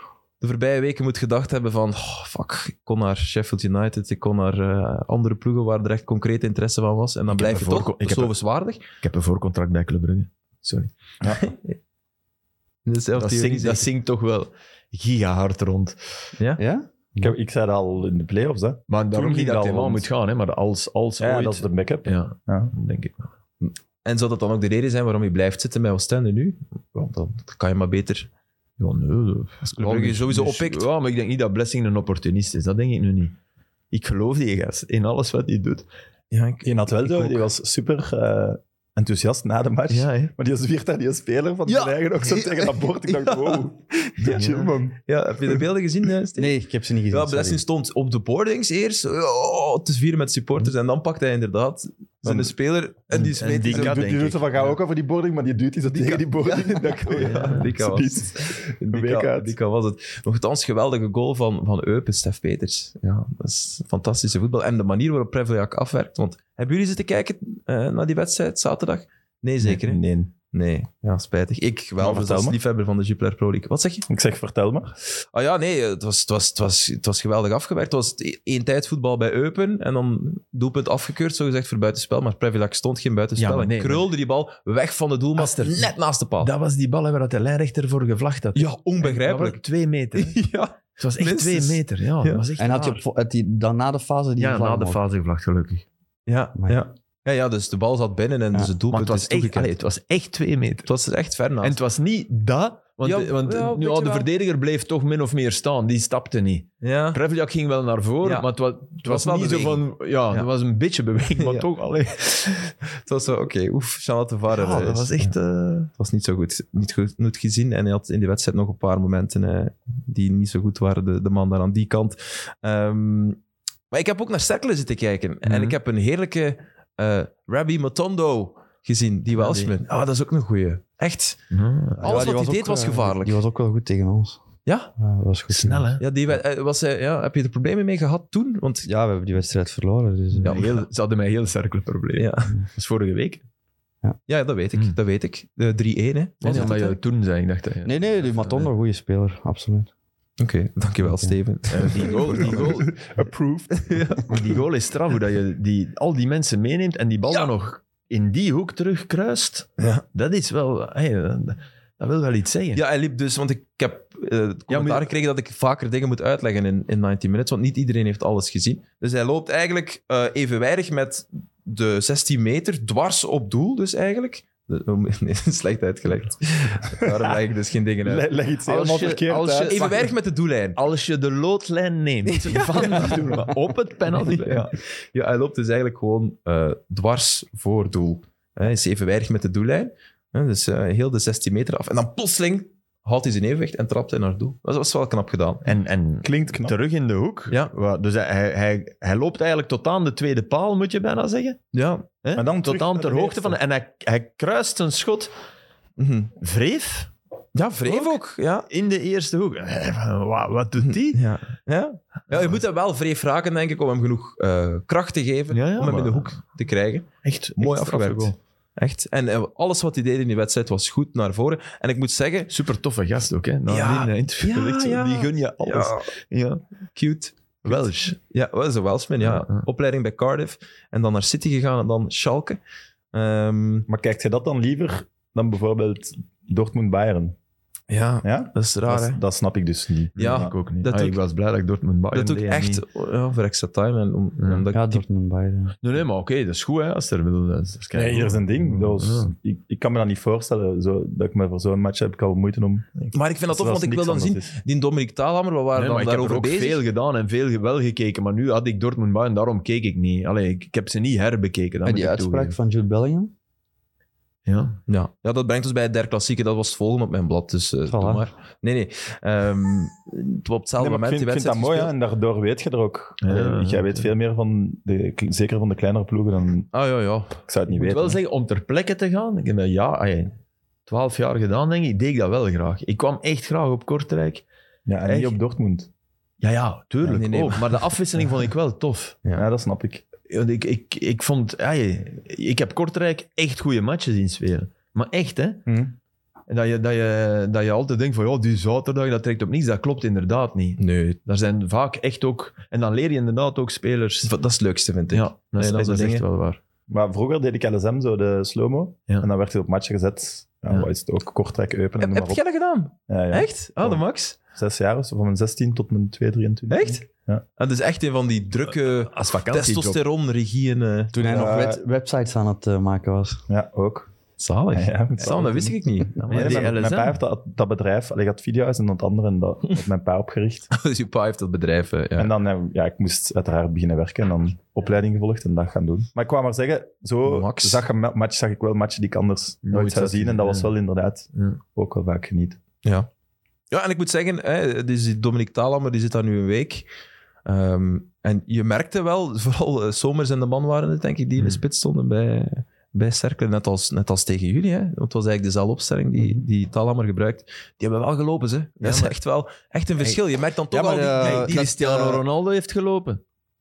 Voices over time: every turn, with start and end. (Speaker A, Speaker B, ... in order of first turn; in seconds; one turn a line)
Speaker A: 0.4-8.8
Speaker B: 7.3-8.3
Speaker B: 9.0-10.9
Speaker A: 11.3-11.8
Speaker A: 12.8-13.8
Speaker B: 13.2-16.0
Speaker C: 16.6-17.3
Speaker D: 17.2-20.1
Speaker B: 18.9-23.3
Speaker D: 21.2-22.7
Speaker A: 23.6-28.3
Speaker B: 28.8-33.3
Speaker A: 29.6-30.9
Speaker B: 33.9-35.9
Speaker A: 36.3-37.4
Speaker D: 36.6-45.0
Speaker B: 39.9-40.3
Speaker B: 44.3-44.7
Speaker A: 45.0-46.5
Speaker C: 46.4-47.6
Speaker A: 47.1-54.0
Speaker D: 52.2-52.5
Speaker B: 53.2-54.7
Speaker D: 53.6-59.5
Speaker A: 55.9-74.1
Speaker B: 57.1-57.7
Speaker D: 69.6-70.3
Speaker D: 72.0-72.6
Speaker D: 74.1-74.9
Speaker A: 75.3-86.5
Speaker B: 83.4-84.1
Speaker B: 85.4-85.9
Speaker B: 86.4-90.4
Speaker A: 88.5-89.6
Speaker A: 90.1-92.4
Speaker B: 91.0-93.0
Speaker C: 92.6-95.0
Speaker B: 94.4-95.8
Speaker A: 96.3-99.7
Speaker C: 96.5-96.8
Speaker B: 98.9-100.9
Speaker A: 100.8-101.8
Speaker B: 101.6-112.7
Speaker A: 103.0-104.3
Speaker A: 106.8-107.2
Speaker A: 108.2-108.5
Speaker A: 109.0-110.5
Speaker A: 111.4-111.7
Speaker A: 113.0-115.3
Speaker B: 114.5-115.9
Speaker A: 115.9-123.4
Speaker A: 123.9-131.4
Speaker B: 125.4-125.8
Speaker B: 129.3-129.7
Speaker B: 131.5-132.3
Speaker C: 132.0-134.4
Speaker A: 132.0-133.4
Speaker A: 134.7-134.9
Speaker C: 135.0-135.9
Speaker B: 135.5-136.0
Speaker A: 136.0-138.9
Speaker C: 138.8-140.6
Speaker B: 140.4-143.4
Speaker A: 140.4-140.8
Speaker A: 142.2-142.5
Speaker A: 144.3-147.0
Speaker B: 146.4-148.7
Speaker C: 147.8-149.9
Speaker A: 150.4-152.8
Speaker C: 151.1-151.3
Speaker B: 151.7-153.0
Speaker D: 152.3-154.1
Speaker A: 153.9-154.2
Speaker B: 154.2-162.8
Speaker A: 162.7-178.3
Speaker B: 164.7-165.1
Speaker D: 178.0-179.8
Speaker B: 178.7-180.1
Speaker A: 179.6-180.8
Speaker B: 180.7-184.8
Speaker A: 182.3-183.4
Speaker A: 184.1-195.7
Speaker B: 195.6-201.6
Speaker D: 196.2-196.8
Speaker A: 201.7-202.1
Speaker B: 202.2-205.3
Speaker D: 202.3-203.6
Speaker A: 206.0-206.3
Speaker B: 206.4-207.1
Speaker A: 207.5-208.7
Speaker B: 207.8-211.2
Speaker A: 210.8-222.5
Speaker B: 212.3-212.6
Speaker B: 215.5-216.4
Speaker B: 217.2-218.3
Speaker B: 222.5-226.6
Speaker A: 223.7-226.1
Speaker A: 226.9-232.6
Speaker B: 227.6-228.2
Speaker B: 229.2-229.6
Speaker A: 233.1-233.9
Speaker D: 233.9-237.3
Speaker A: 237.9-239.2
Speaker D: 238.2-240.5
Speaker B: 240.2-242.8
Speaker A: 240.2-241.2
Speaker A: 242.1-245.0
Speaker B: 244.4-244.7
Speaker C: 244.7-245.8
Speaker B: 245.8-249.3
Speaker D: 247.9-252.9
Speaker A: 253.1-256.8
Speaker D: 253.5-254.5
Speaker B: 255.7-262.6
Speaker C: 261.8-263.3
Speaker B: 264.4-264.8
Speaker A: 264.9-271.9
Speaker C: 267.9-268.2
Speaker D: 270.8-276.7
Speaker B: 273.2-274.1
Speaker A: 276.7-277.4
Speaker D: 277.5-278.2
Speaker B: 277.7-280.4
Speaker B: 280.9-284.4
Speaker D: 284.9-285.9
Speaker B: 285.1-285.4
Speaker B: 286.4-289.2
Speaker A: 287.0-287.7
Speaker D: 289.3-290.0
Speaker B: 290.3-295.6
Speaker D: 295.7-295.9
Speaker B: 296.5-304.3
Speaker A: 300.8-301.2
Speaker A: 304.2-306.2
Speaker B: 305.1-306.6
Speaker D: 306.9-312.4
Speaker A: 312.0-314.4
Speaker D: 313.1-317.4
Speaker A: 316.7-317.1
Speaker A: 317.6-321.4
Speaker B: 318.9-320.0
Speaker C: 321.1-323.4
Speaker D: 321.2-321.8
Speaker D: 323.5-324.1
Speaker A: 324.4-326.7
Speaker D: 324.7-325.8
Speaker B: 326.2-327.2
Speaker D: 326.3-330.7
Speaker A: 330.7-332.3
Speaker D: 332.2-342.6
Speaker A: 337.2-337.8
Speaker B: 339.6-340.7
Speaker B: 341.3-341.6
Speaker A: 342.8-343.1
Speaker A: 343.7-346.9
Speaker A: 347.4-361.7
Speaker B: 358.8-359.1
Speaker C: 360.7-362.2
Speaker B: 361.1-363.2